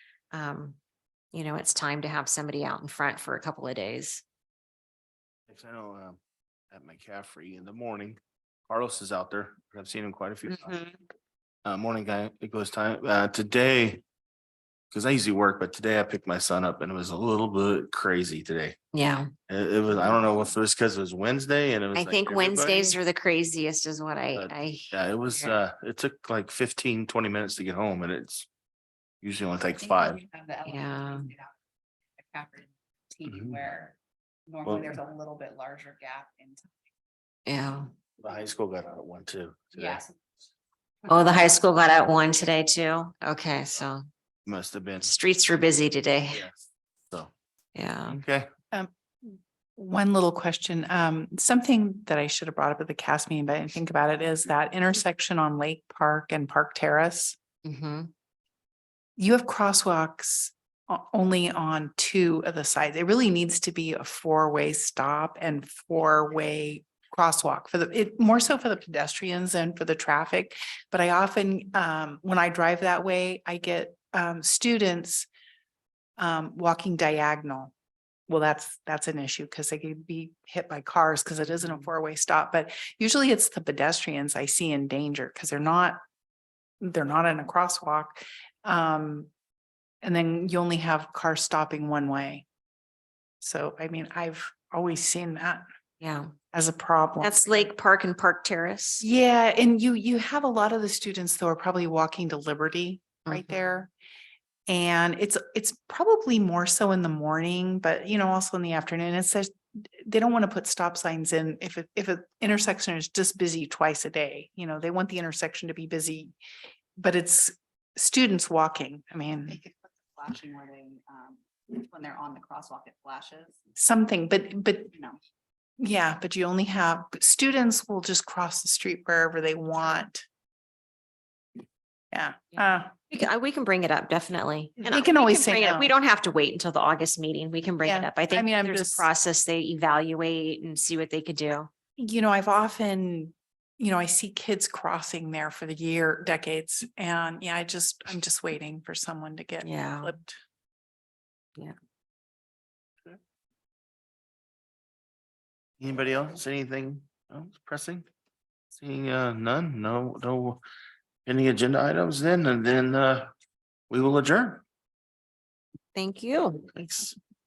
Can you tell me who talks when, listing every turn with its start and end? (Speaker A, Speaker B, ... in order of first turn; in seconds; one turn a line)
Speaker A: 0.3-0.8
Speaker A: 1.3-4.2
Speaker B: 5.5-6.2
Speaker B: 6.7-10.8
Speaker A: 10.4-11.0
Speaker B: 11.6-14.0
Speaker B: 14.9-18.8
Speaker A: 18.9-19.3
Speaker B: 19.5-23.0
Speaker A: 19.9-20.5
Speaker A: 21.9-25.5
Speaker B: 24.3-28.5
Speaker B: 29.2-30.2
Speaker C: 29.8-31.4
Speaker A: 30.6-31.3
Speaker C: 32.3-33.2
Speaker B: 33.2-33.7
Speaker C: 34.5-36.6
Speaker B: 34.6-35.0
Speaker A: 37.5-37.9
Speaker B: 38.2-40.0
Speaker A: 41.1-44.0
Speaker B: 44.5-45.1
Speaker A: 45.0-46.4
Speaker B: 46.3-46.6
Speaker A: 47.7-48.2
Speaker B: 48.0-48.5
Speaker D: 48.7-57.4
Speaker A: 57.6-58.1
Speaker D: 59.2-75.3
Speaker D: 76.2-77.7
Speaker D: 78.3-86.0
Speaker A: 81.6-81.9
Speaker D: 86.8-89.3
Speaker D: 90.0-92.5
Speaker D: 93.4-95.6
Speaker A: 96.0-96.3
Speaker D: 96.5-97.7
Speaker A: 97.2-99.0
Speaker D: 99.0-103.9
Speaker A: 103.2-103.6
Speaker D: 104.7-116.3
Speaker D: 117.0-119.6
Speaker C: 119.6-123.6
Speaker D: 123.7-124.9
Speaker D: 125.8-130.2
Speaker D: 132.1-132.9
Speaker A: 132.6-141.7
Speaker D: 134.8-135.9
Speaker D: 137.8-139.1
Speaker D: 142.0-150.4
Speaker A: 149.6-150.1
Speaker B: 155.8-158.1
Speaker B: 158.7-160.6
Speaker B: 161.2-163.3
Speaker B: 163.9-164.6
Speaker A: 165.9-166.7
Speaker B: 166.7-167.2